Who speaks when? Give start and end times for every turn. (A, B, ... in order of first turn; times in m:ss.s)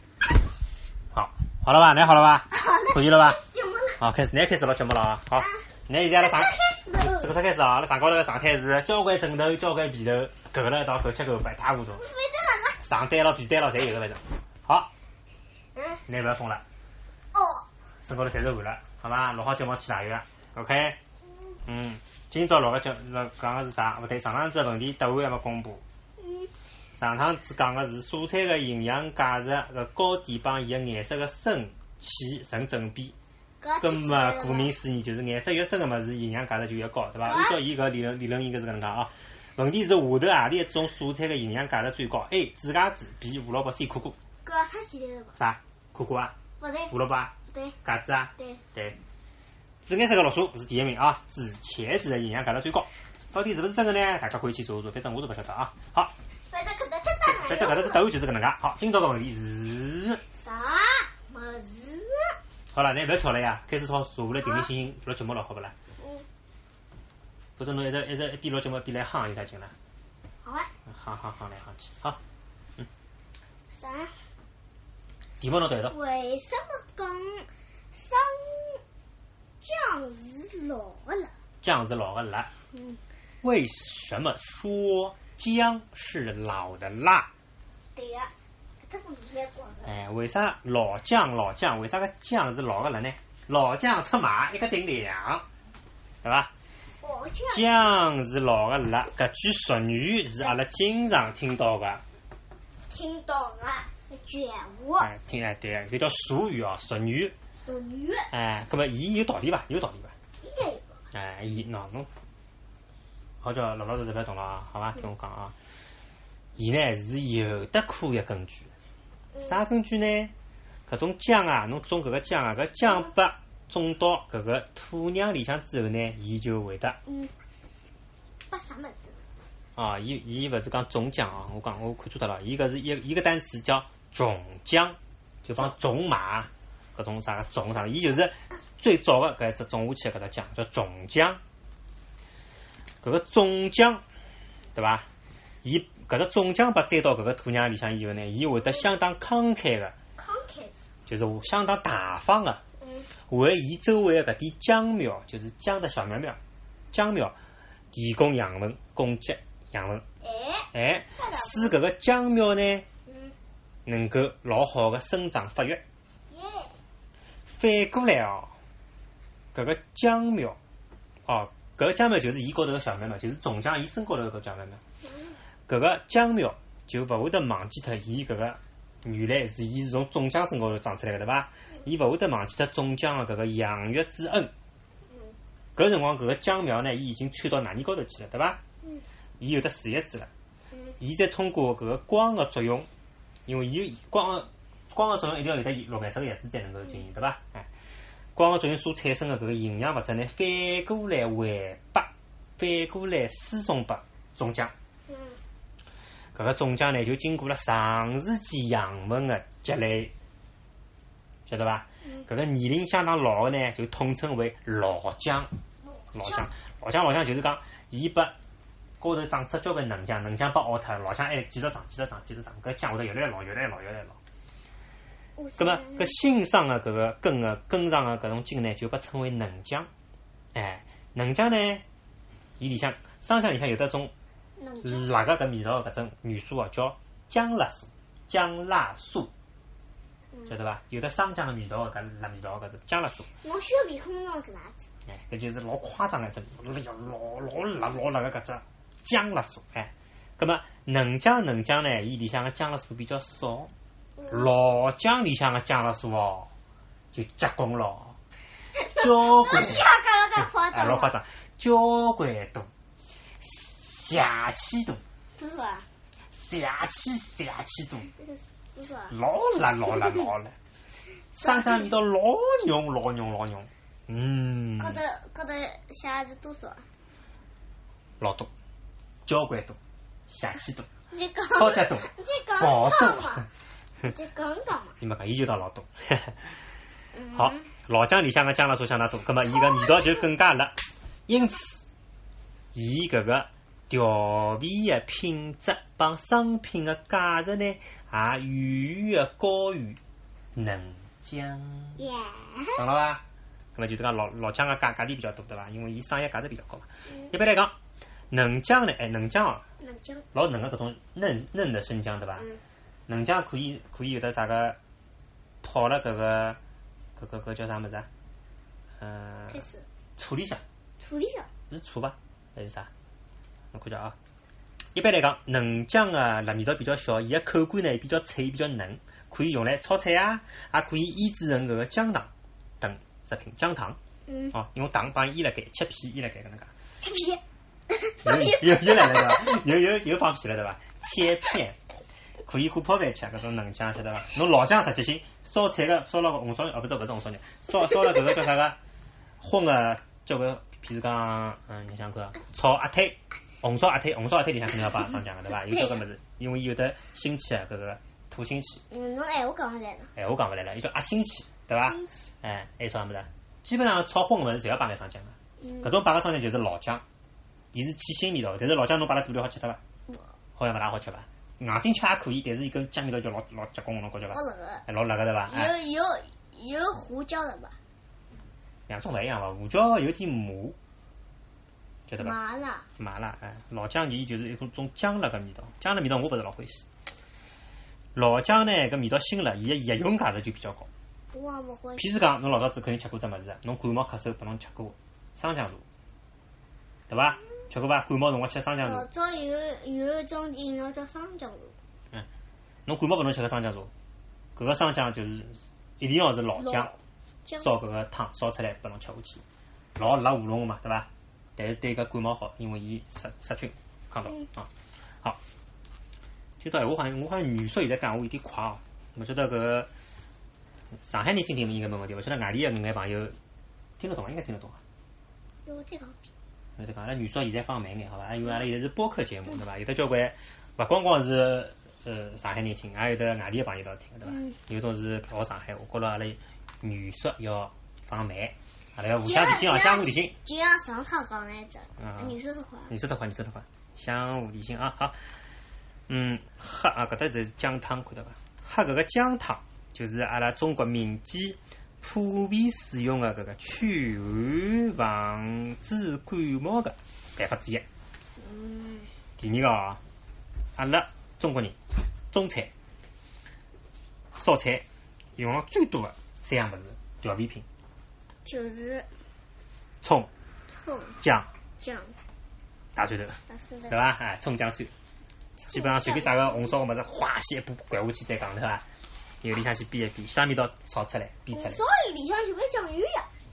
0:01.1-0:03.4 A
0:02.5-0:04.0 B
0:04.0-0:12.0 A
0:05.4-0:07.3 B
0:11.9-0:12.8 B
0:12.8-0:14.9 A
0:15.7-0:16.0 B
0:16.1-0:16.6 A
0:17.3-0:17.6 B
0:18.0-0:21.0 A
0:21.6-0:25.8 A
0:26.2-0:26.5 B
0:27.0-0:33.1 A
0:33.6-0:34.7 B
0:33.8-0:44.1 A
0:37.2-0:37.6 B
0:44.4-0:45.4 B
0:45.4-0:46.3 A
0:46.6-0:46.9 B
0:46.9-0:47.3 A
0:47.5-0:47.8 B
0:47.8-0:49.0 A
0:49.8-0:56.1 A
0:56.5-0:58.0 B
0:57.2-1:00.2 A
1:00.3-1:02.4 B
1:02.7-1:05.7 A
1:04.4-1:04.7 B
1:06.0-1:06.2 B
1:07.6-1:09.7 A
1:10.4-1:10.7 B
1:10.9-1:12.2 A
1:13.7-1:14.2 B
1:15.4-1:16.0 A
1:15.9-1:18.8 B
1:19.6-1:21.3 B
1:21.6-1:22.5 A
1:22.7-1:23.0 B
1:23.4-1:27.3 A
1:27.9-1:29.9 B
1:29.8-1:35.4 A
1:36.2-1:36.5 A
1:37.0-1:37.8 B
1:37.5-1:42.0 A
1:42.9-1:45.1 B
1:45.0-1:47.3 A
1:47.6-1:48.3 B
1:48.3-1:50.1 A
1:50.4-1:51.0 B
1:51.1-1:52.1 A
1:53.4-1:55.5 A
1:56.6-1:58.7 A
1:59.4-2:00.3 A
2:00.9-2:07.0 A
2:07.0-2:07.3 B
2:08.5-2:09.2 B
2:09.8-2:21.4 A
2:23.0-2:24.0 A
2:24.7-2:25.1 A
2:25.6-2:29.9 A
2:30.2-2:30.9 B
2:31.1-2:32.6 A
2:32.8-2:33.1 B
2:33.3-2:36.4 A
2:36.9-2:37.3 A
2:37.9-2:40.0 A
2:40.2-2:41.8 B
2:40.7-2:42.8 A
2:43.1-2:43.3 B
2:43.8-2:45.8 A
2:46.3-2:46.7 B
2:47.5-2:48.5 A
2:49.5-2:50.6 A
2:51.3-2:54.8 A
2:55.0-2:55.4 B
2:55.7-3:04.5 A
3:05.1-3:05.4 B
3:05.8-3:08.6 A
3:09.4-3:10.3 A
3:10.7-3:11.0 B
3:11.0-3:12.9 A
3:13.4-3:17.7 A
3:18.3-3:24.7 A
3:25.1-3:25.4 B
3:26.3-3:30.1 A
3:31.5-3:35.5 A
3:35.8-3:36.4 B
3:36.1-3:38.3 A
3:39.0-3:44.2 A
3:45.4-3:46.2 B
3:45.6-3:49.9 A
3:50.5-3:51.8 A
3:52.6-3:54.1 A
3:54.6-3:55.2 B
3:54.8-3:59.3 A
4:00.4-4:03.3 A
4:03.4-4:04.8 B
4:05.1-4:13.7 A
4:14.2-4:14.5 B
4:14.3-4:16.5 A
4:17.1-4:18.2 A
4:18.8-4:21.2 B
4:18.9-4:22.7 A
4:23.4-4:25.0 A
4:25.3-4:25.9 B
4:26.3-4:28.1 A
4:28.1-4:29.1 B
4:29.1-4:30.5 A
4:31.3-4:35.0 A
4:31.5-4:31.8 B
4:34.8-4:36.8 B
4:38.2-4:38.5 A
4:39.2-4:39.8 A
4:40.3-4:40.9 A
4:41.1-4:43.5 B
4:41.5-4:43.5 A
4:44.0-4:45.0 B
4:45.0-4:46.6 A
4:47.1-4:47.7 B
4:47.3-4:50.7 A
4:49.6-4:50.2 B
4:51.3-4:51.9 A
4:52.7-5:00.0 A
5:00.5-5:02.0 A
5:02.0-5:02.8 B
5:02.8-5:03.2 A
5:03.7-5:07.7 A
5:08.3-5:09.6 A
5:09.8-5:10.2 B
5:10.3-5:12.5 A
5:13.1-5:14.8 A
5:15.6-5:16.6 A
5:17.2-5:18.1 A
5:19.0-5:19.6 A
5:19.5-5:19.8 B
5:20.2-5:20.6 A
5:21.0-5:21.5 B
5:21.7-5:22.9 A
5:23.7-5:24.2 A
5:24.9-5:32.3 A
5:32.8-5:34.0 A
5:34.3-5:34.5 B
5:34.5-5:36.7 A
5:37.0-5:39.6 B
5:38.2-5:41.8 A
5:42.4-5:48.8 A
5:49.4-5:58.8 A
5:55.7-5:56.0 B
5:58.9-6:00.1 B
6:00.2-6:07.0 A
6:01.7-6:02.3 B
6:05.6-6:05.9 B
6:07.7-6:09.8 A
6:10.6-6:15.7 A
6:14.3-6:14.8 B
6:15.5-6:17.8 B
6:18.9-6:20.8 A
6:22.1-6:22.3 A
6:22.2-6:22.8 B
6:23.0-6:26.8 A
6:28.1-6:30.9 A
6:31.3-6:32.0 B
6:32.0-6:35.8 A
6:37.1-6:39.0 A
6:38.8-6:41.7 B
6:42.8-6:43.9 A
6:44.6-6:46.9 A
6:46.6-6:46.9 B
6:47.5-6:49.4 A
6:50.0-6:54.7 A
6:56.6-6:59.9 A
7:00.9-7:03.4 A
7:04.0-7:04.8 A
7:05.6-7:06.2 B
7:06.8-7:20.3 A
7:14.2-7:14.6 B
7:19.2-7:22.9 B
7:22.0-7:22.4 A
7:22.9-7:25.3 A
7:26.1-7:37.8 A
7:38.4-7:39.1 B
7:39.4-7:40.0 A
7:40.8-7:41.8 A
7:42.3-7:42.7 A
7:44.3-7:44.8 A
7:45.4-7:47.6 A
7:48.4-7:49.1 B
7:50.0-7:50.3 A
7:50.7-7:51.2 B
7:51.2-7:51.5 A
7:51.8-7:52.2 B
7:52.9-7:54.9 A
7:53.5-7:53.9 B
7:55.6-7:56.7 B
7:55.7-7:58.8 A
7:59.4-8:01.8 A
8:01.5-8:03.3 B